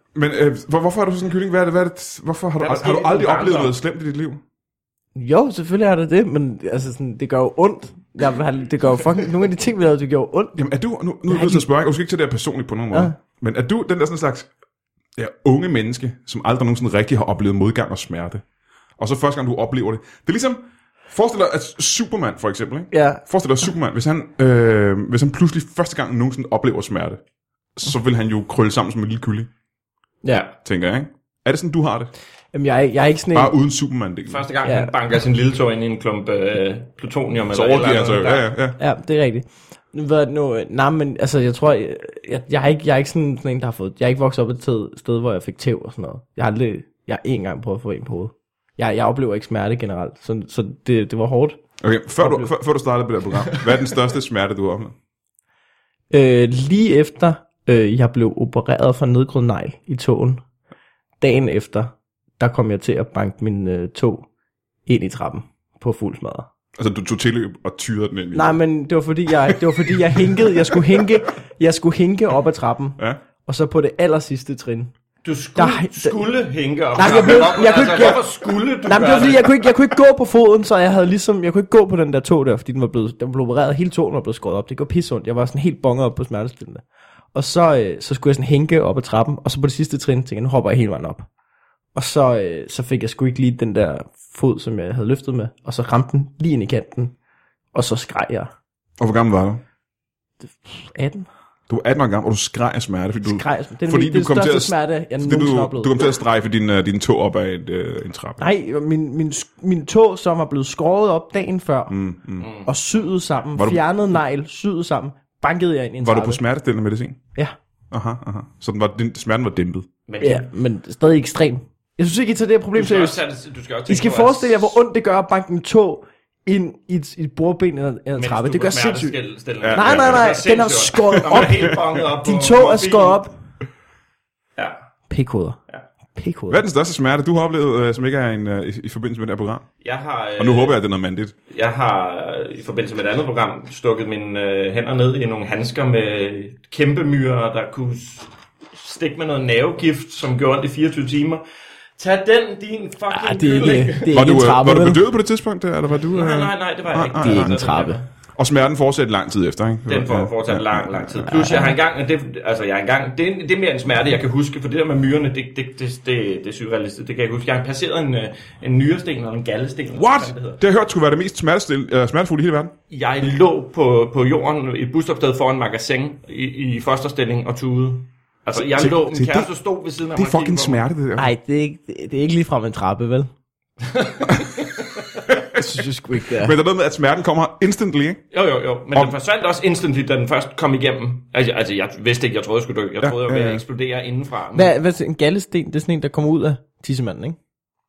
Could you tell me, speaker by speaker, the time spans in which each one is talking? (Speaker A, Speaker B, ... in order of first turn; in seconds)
Speaker A: 0.1-4.4, 10.6-14.5, 15.2-18.4, 19.0-27.2, 27.8-29.5, 30.6-32.1, 33.3-34.4, 37.5-38.8, 51.8-54.9, 66.8-68.6, 99.0-99.6, 101.7-108.4, 111.9-112.5, 113.5-113.8, 116.0-117.2, 117.9-119.8, 129.6-130.3, 136.5-139.7, 140.4-141.3, 154.1-157.5, 158.3-161.4, 169.9-172.7, 178.8-179.5, 180.2-181.3, 184.3-184.5, 185.2-185.7, 186.3-188.2, 193.0-193.6
Speaker B: 2.6-3.8, 34.3-38.5, 75.2-79.7, 112.4-112.7, 120.1-120.5, 122.7-124.8, 128.2-133.2, 139.8-140.8, 141.5-151.4, 152.0-154.2, 156.1-158.1, 159.9-170.6, 172.9-180.8, 183.8-184.7, 188.3-194.7
Speaker C: 5.1-10.6, 11.3-11.7, 22.9-23.2, 32.5-33.5, 34.6-34.9, 38.8-51.6, 52.2-52.5, 56.1-60.4, 61.2-64.2, 64.8-66.5, 68.3-74.9, 75.5-76.2, 76.9-86.8, 87.3-91.2, 91.9-97.1, 97.7-98.5, 100.4-101.3, 103.2-105.9, 108.4-111.9, 112.6-116.4, 120.2-123.2, 123.9-129.1, 129.7-133.3, 135.1-135.6, 136.2-136.6, 153.1-155.0, 157.2-158.0, 161.3-161.8, 181.2-183.3, 185.5-186.6, 194.5-197.4